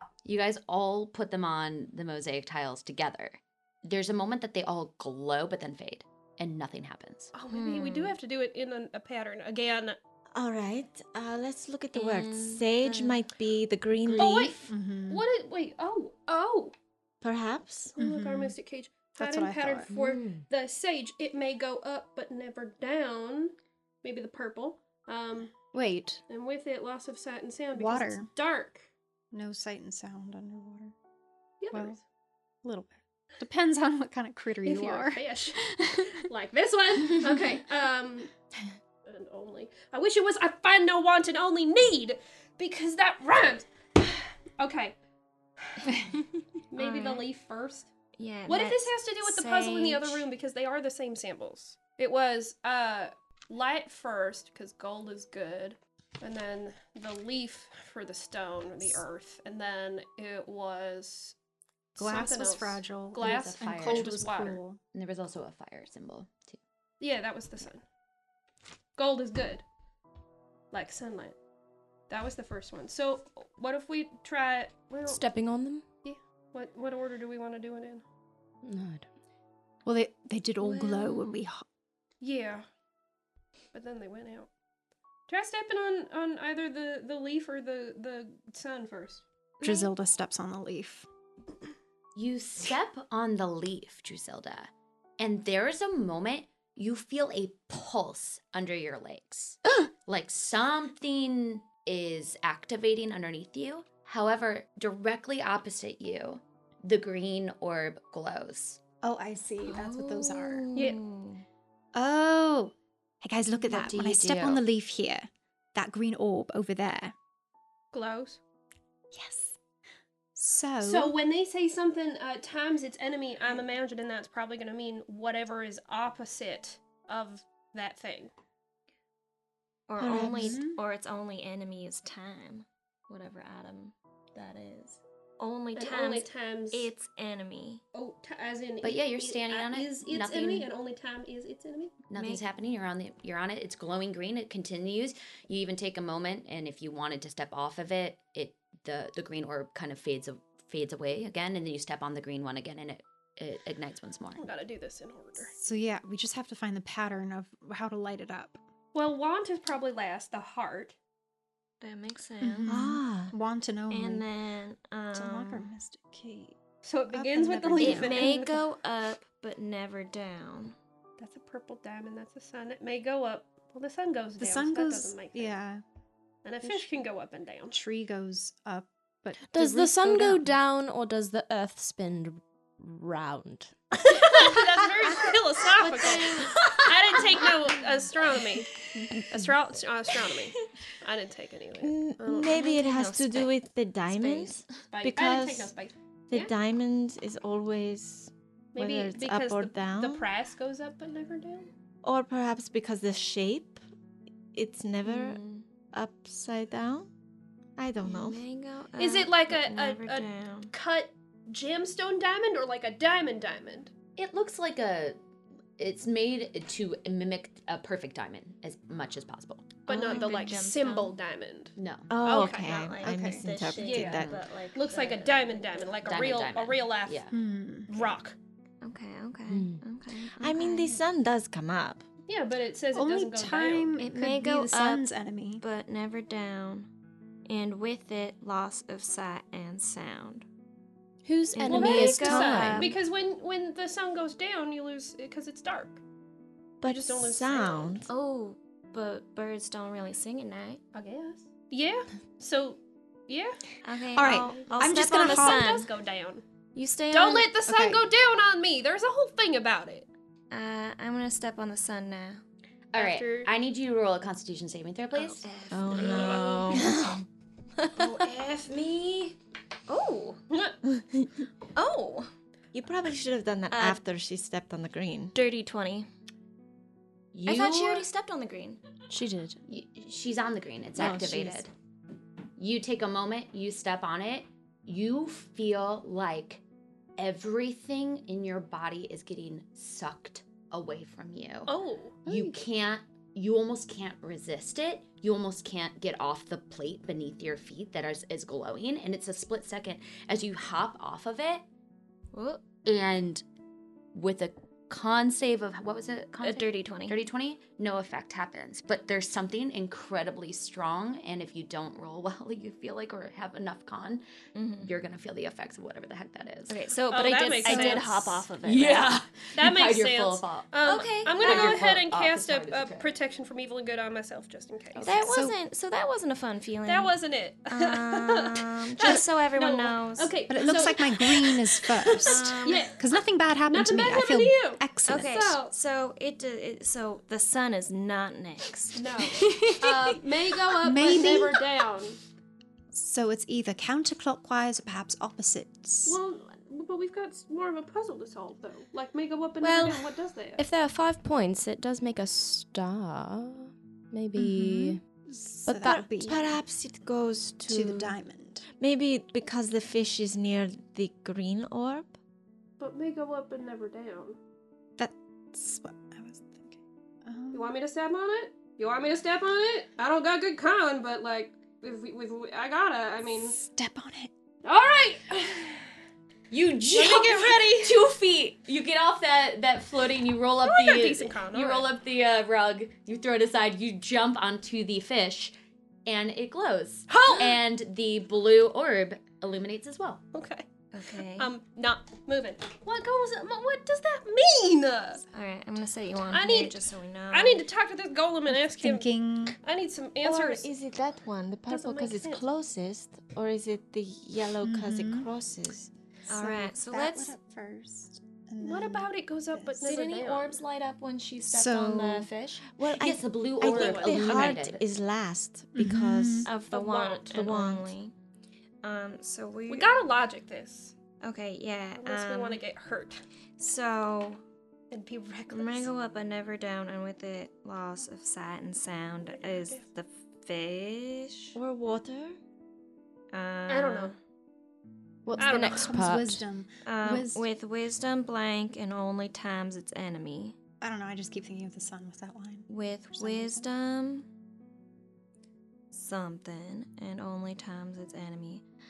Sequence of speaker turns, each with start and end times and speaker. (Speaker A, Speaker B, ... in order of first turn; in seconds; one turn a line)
Speaker A: 0.2-7.3
Speaker B: 7.3-10.0
Speaker C: 7.5-8.2
Speaker D: 10.3-14.7
Speaker C: 11.9-13.2
Speaker B: 14.1-16.7
Speaker E: 14.7-15.2
Speaker D: 17.2-17.9
Speaker B: 17.9-25.5
Speaker E: 18.0-18.6
Speaker E: 19.1-19.9
Speaker F: 19.9-20.4
Speaker E: 25.7-26.2
Speaker B: 26.3-28.9
Speaker E: 27.7-28.3
Speaker E: 29.3-30.9
Speaker B: 31.6-32.0
Speaker E: 31.7-32.0
Speaker E: 32.6-36.2
Speaker B: 34.6-38.3
Speaker B: 39.0-45.0
Speaker B: 45.6-46.0
Speaker B: 46.7-47.9
Speaker C: 46.8-47.3
Speaker C: 48.2-50.3
Speaker B: 48.5-61.3
Speaker B: 61.9-64.6
Speaker E: 62.0-64.8
Speaker A: 63.2-64.3
Speaker A: 64.9-66.6
Speaker B: 67.0-67.8
Speaker B: 69.0-69.6
Speaker B: 70.7-71.4
Speaker B: 72.1-75.2
Speaker F: 75.0-75.8
Speaker B: 76.0-78.0
Speaker F: 78.6-79.1
Speaker E: 79.8-81.6
Speaker C: 80.6-81.4
Speaker B: 82.2-82.7
Speaker B: 83.7-84.5
Speaker B: 85.3-89.7
Speaker E: 89.6-91.1
Speaker A: 92.1-108.8
Speaker E: 109.0-110.6
Speaker C: 109.6-111.4
Speaker B: 110.7-111.0
Speaker E: 111.9-117.1
Speaker A: 113.7-114.6
Speaker B: 117.9-118.4
Speaker E: 119.1-119.6
Speaker E: 120.3-121.2
Speaker B: 120.8-128.3
Speaker C: 129.9-137.8
Speaker D: 130.0-130.6
Speaker E: 130.0-130.8
Speaker B: 135.7-136.9
Speaker B: 137.9-141.9
Speaker A: 138.8-140.7
Speaker A: 142.1-154.4
Speaker C: 142.1-142.4
Speaker B: 154.4-155.5
Speaker E: 155.6-158.6
Speaker B: 158.9-160.9
Speaker C: 161.8-162.7
Speaker E: 162.4-164.2
Speaker D: 162.7-163.3
Speaker C: 163.9-165.7
Speaker E: 165.1-166.6
Speaker B: 166.8-168.6
Speaker E: 167.1-168.3
Speaker C: 167.8-170.8
Speaker B: 171.2-175.6
Speaker E: 174.4-175.8
Speaker B: 176.4-177.8
Speaker E: 176.6-176.9
Speaker E: 177.7-180.4
Speaker F: 179.5-184.3
Speaker B: 184.1-188.7
Speaker C: 185.9-186.6
Speaker B: 189.2-192.6
Speaker D: 191.8-195.7
Speaker C: 192.5-193.5
Speaker C: 194.1-194.7
Speaker B: 194.9-196.5
Speaker D: 196.3-200.3
Speaker B: 198.7-201.7
Speaker D: 202.0-203.8
Speaker D: 204.5-205.4
Speaker C: 205.0-205.6
Speaker D: 205.9-207.1
Speaker D: 207.8-208.4
Speaker C: 208.0-210.7
Speaker B: 209.0-213.9
Speaker A: 214.2-215.2
Speaker A: 215.8-219.7
Speaker B: 219.9-223.0
Speaker C: 219.9-221.2
Speaker A: 221.8-222.1
Speaker D: 222.1-224.4
Speaker C: 222.5-226.0
Speaker E: 223.0-223.4
Speaker B: 223.8-227.3
Speaker A: 226.0-227.4
Speaker E: 227.3-227.9
Speaker B: 227.9-228.4
Speaker C: 228.8-231.0
Speaker F: 229.5-229.8
Speaker D: 230.3-232.0
Speaker B: 232.3-233.9
Speaker E: 232.9-235.6
Speaker C: 234.0-236.9
Speaker C: 237.4-240.4
Speaker F: 241.2-243.0
Speaker C: 241.5-242.9
Speaker B: 241.6-246.0
Speaker D: 246.8-248.1
Speaker B: 246.8-248.0
Speaker C: 248.1-250.8
Speaker B: 250.9-253.6
Speaker C: 253.8-255.9
Speaker E: 254.1-255.7
Speaker B: 254.7-256.4
Speaker C: 256.7-257.5
Speaker B: 257.1-260.1
Speaker E: 257.6-258.0
Speaker C: 260.5-262.4
Speaker A: 262.9-265.4
Speaker B: 262.9-263.5
Speaker C: 265.4-266.9
Speaker D: 265.7-267.2
Speaker B: 265.9-266.9
Speaker C: 268.0-269.4
Speaker B: 268.0-268.7
Speaker C: 269.9-270.4
Speaker B: 270.5-270.8
Speaker C: 271.7-272.3
Speaker D: 272.7-275.4
Speaker C: 273.7-274.0
Speaker C: 275.3-276.1
Speaker A: 277.3-278.0
Speaker C: 277.4-278.8
Speaker F: 279.1-279.6
Speaker A: 279.7-281.7
Speaker D: 281.0-281.6
Speaker A: 282.6-286.6
Speaker A: 287.2-291.7
Speaker B: 291.7-292.5
Speaker A: 292.2-301.6
Speaker C: 302.3-302.6
Speaker A: 302.8-303.4
Speaker A: 304.1-314.2
Speaker C: 306.4-307.2
Speaker C: 314.5-314.9
Speaker A: 314.8-316.8
Speaker C: 316.7-319.1
Speaker B: 317.1-318.2
Speaker A: 317.6-320.7
Speaker B: 319.6-325.2
Speaker C: 320.8-321.8
Speaker A: 321.4-323.1
Speaker C: 325.0-327.1
Speaker E: 325.3-325.6
Speaker B: 326.9-333.1
Speaker C: 327.7-330.9
Speaker E: 330.5-335.6
Speaker C: 332.2-332.9
Speaker B: 333.7-335.7
Speaker C: 335.1-339.6
Speaker B: 338.9-342.2
Speaker E: 340.8-341.6
Speaker E: 342.9-346.2
Speaker B: 346.1-350.6
Speaker F: 349.6-355.0
Speaker E: 354.3-356.6
Speaker F: 355.7-356.2
Speaker D: 356.2-358.1
Speaker E: 357.7-358.6
Speaker D: 358.8-362.2
Speaker B: 362.8-364.4
Speaker E: 365.0-367.7
Speaker B: 367.5-373.6
Speaker E: 373.2-374.3
Speaker B: 374.6-375.9
Speaker A: 376.5-385.5
Speaker B: 376.9-378.1
Speaker B: 380.6-381.9
Speaker A: 386.1-390.2
Speaker B: 387.1-387.6
Speaker B: 390.3-390.7
Speaker C: 390.9-391.5
Speaker B: 391.4-395.2
Speaker C: 395.3-397.6
Speaker B: 396.3-396.8
Speaker B: 397.3-399.1
Speaker E: 398.5-399.6
Speaker B: 399.6-400.7
Speaker D: 400.2-405.9
Speaker B: 401.7-402.4
Speaker E: 404.6-405.3
Speaker C: 406.3-407.4
Speaker E: 406.3-409.9
Speaker B: 408.6-410.6
Speaker C: 409.8-412.6
Speaker E: 411.4-412.3
Speaker D: 412.7-416.5
Speaker A: 413.0-414.8
Speaker B: 413.6-414.6
Speaker E: 415.7-416.5
Speaker C: 416.4-418.1
Speaker B: 416.7-417.5
Speaker D: 417.4-417.9
Speaker C: 418.8-419.9
Speaker B: 419.7-420.9
Speaker C: 421.2-422.6
Speaker B: 422.0-423.2
Speaker C: 423.6-424.4
Speaker B: 424.9-425.9
Speaker C: 425.5-431.6
Speaker B: 429.3-429.8
Speaker D: 431.5-432.4
Speaker C: 433.3-434.2
Speaker B: 433.7-434.1
Speaker F: 435.2-436.4
Speaker E: 435.4-437.4
Speaker B: 435.4-436.0
Speaker C: 436.8-440.5
Speaker E: 440.8-443.6
Speaker C: 442.7-444.3
Speaker C: 445.9-448.6